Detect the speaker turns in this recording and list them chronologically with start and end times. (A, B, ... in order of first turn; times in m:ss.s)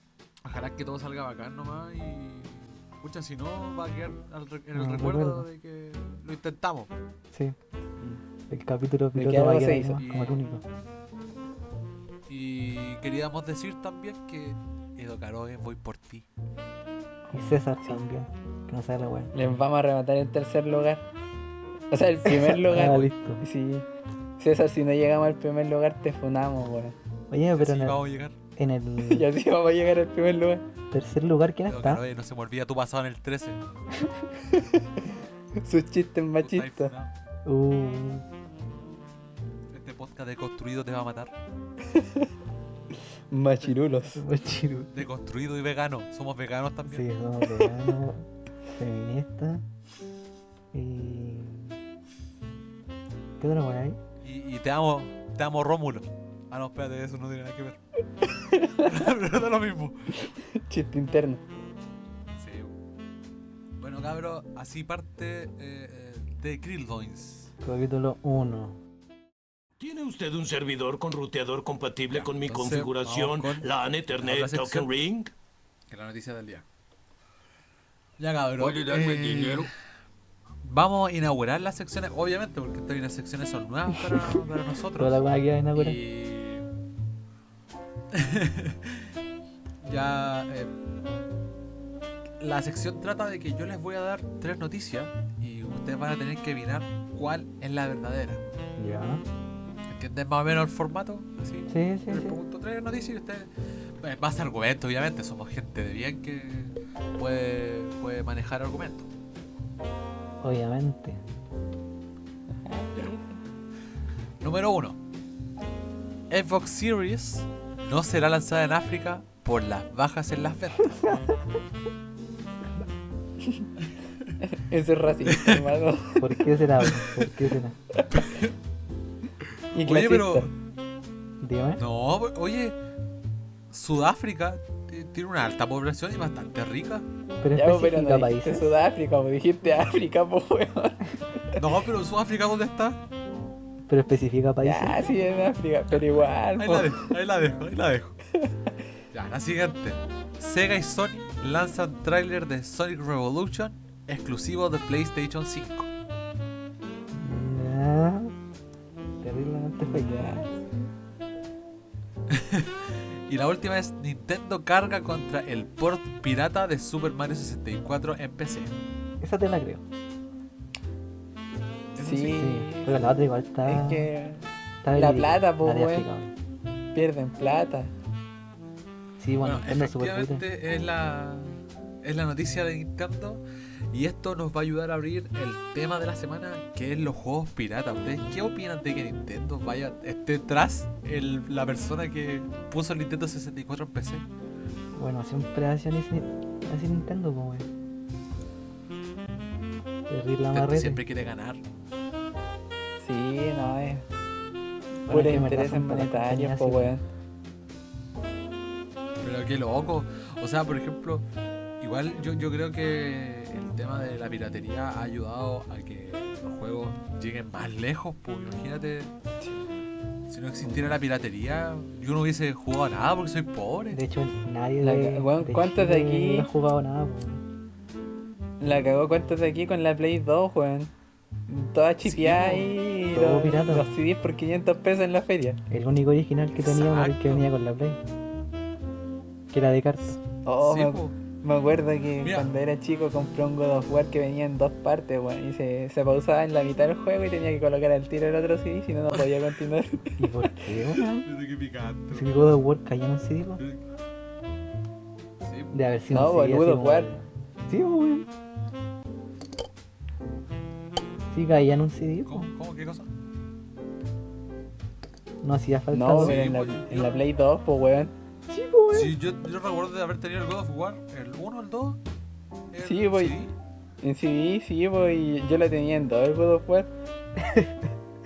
0:00.4-0:06.9 A
0:04.7-0:05.5 B
0:08.5-0:10.6 B
0:09.2-0:10.0 C
0:10.0-0:10.4 A
0:12.3-0:16.3 A
0:17.3-0:19.3 B
0:19.3-0:21.1 C
0:21.9-0:23.9 C
0:22.6-0:23.4 B
0:22.7-0:23.2 A
0:24.4-0:27.0 C
0:27.3-0:28.0 B
0:27.6-0:28.4 A
0:28.6-0:29.3 B
0:29.0-0:30.6 C
0:30.9-0:32.0 B
0:31.7-0:33.6 A
0:35.6-0:36.9 C
0:36.4-0:37.1 A
0:37.4-0:38.3 B
0:39.7-0:41.3 A
0:41.9-0:42.3 C
0:43.3-0:44.2 C
0:44.2-0:45.0 B
0:44.9-0:47.1 A
0:46.9-0:49.7 B
0:50.7-0:51.8 B
0:53.4-0:54.0 B
0:54.2-0:57.8 A
0:58.5-0:58.9 C
0:58.7-1:00.3 A
1:00.4-1:01.4 C
1:02.4-1:02.8 A
1:03.8-1:07.5 A
1:07.6-1:08.8 B
1:09.8-1:15.3 D
1:12.1-1:14.9 A
1:15.9-1:16.6 A
1:18.2-1:19.8 A
1:18.6-1:19.7 D
1:20.6-1:25.2 A
1:25.0-1:26.0 B
1:25.7-1:26.7 A
1:28.1-1:29.1 A
1:29.8-1:30.7 A
1:32.4-1:38.4 A
1:38.8-1:39.2 B
1:39.9-1:49.1 A
1:41.7-1:42.4 B
1:50.4-1:51.2 B
1:52.5-1:53.4 C
1:54.4-1:55.0 A
1:56.3-2:01.3 A
2:03.4-2:03.7 C
2:04.4-2:06.4 C
2:05.3-2:05.6 A
2:06.2-2:07.8 B
2:06.8-2:07.2 A
2:08.1-2:08.5 A
2:09.7-2:10.5 C
2:09.7-2:10.5 A
2:11.4-2:11.8 B
2:11.8-2:12.8 A
2:13.7-2:17.1 A
2:17.4-2:18.7 B
2:17.5-2:21.6 C
2:21.6-2:23.0 A
2:23.9-2:25.1 B
2:24.6-2:27.0 C
2:26.6-2:28.2 A
2:28.4-2:28.7 C
2:29.1-2:35.9 A
2:37.1-2:38.3 B
2:39.2-2:40.5 B
2:39.8-2:40.5 C
2:42.3-2:48.7 A
2:49.2-2:49.8 B
2:52.0-2:52.4 A
2:52.0-2:53.0 C
2:52.3-2:54.1 B
2:53.6-2:56.1 C
2:54.8-2:56.3 B
2:56.9-2:57.9 C
2:59.2-3:00.4 B
2:59.4-3:14.3 A
3:15.0-3:17.7 B
3:20.1-3:21.0 B
3:20.5-3:21.6 A
3:23.0-3:24.1 C
3:25.1-3:26.9 B
3:25.1-3:27.0 C
3:29.2-3:31.2 A
3:31.8-3:39.1 A
3:39.4-3:39.8 C
3:40.3-3:44.0 A
3:43.9-3:47.4 B
3:44.8-3:46.5 C
3:48.6-3:50.9 C
3:51.5-3:55.6 C
3:52.0-3:52.8 A
3:53.1-3:54.0 B
3:55.7-3:58.0 B
3:56.6-3:57.5 A
3:59.5-4:00.2 B
4:00.4-4:10.3 C
4:00.6-4:01.2 A
4:02.2-4:02.5 A
4:10.2-4:11.3 B
4:11.0-4:12.4 A
4:12.1-4:13.6 B
4:15.4-4:15.8 A
4:15.7-4:18.3 B
4:16.1-4:17.1 C
4:21.3-4:22.5 B
4:22.3-4:23.1 A
4:25.4-4:26.4 B
4:25.9-4:28.1 C
4:26.2-4:27.2 A
4:28.5-4:29.1 B
4:28.9-4:32.0 A
4:32.7-4:33.5 A
4:32.8-4:33.4 C
4:34.0-4:36.9 C
4:37.4-4:37.8 B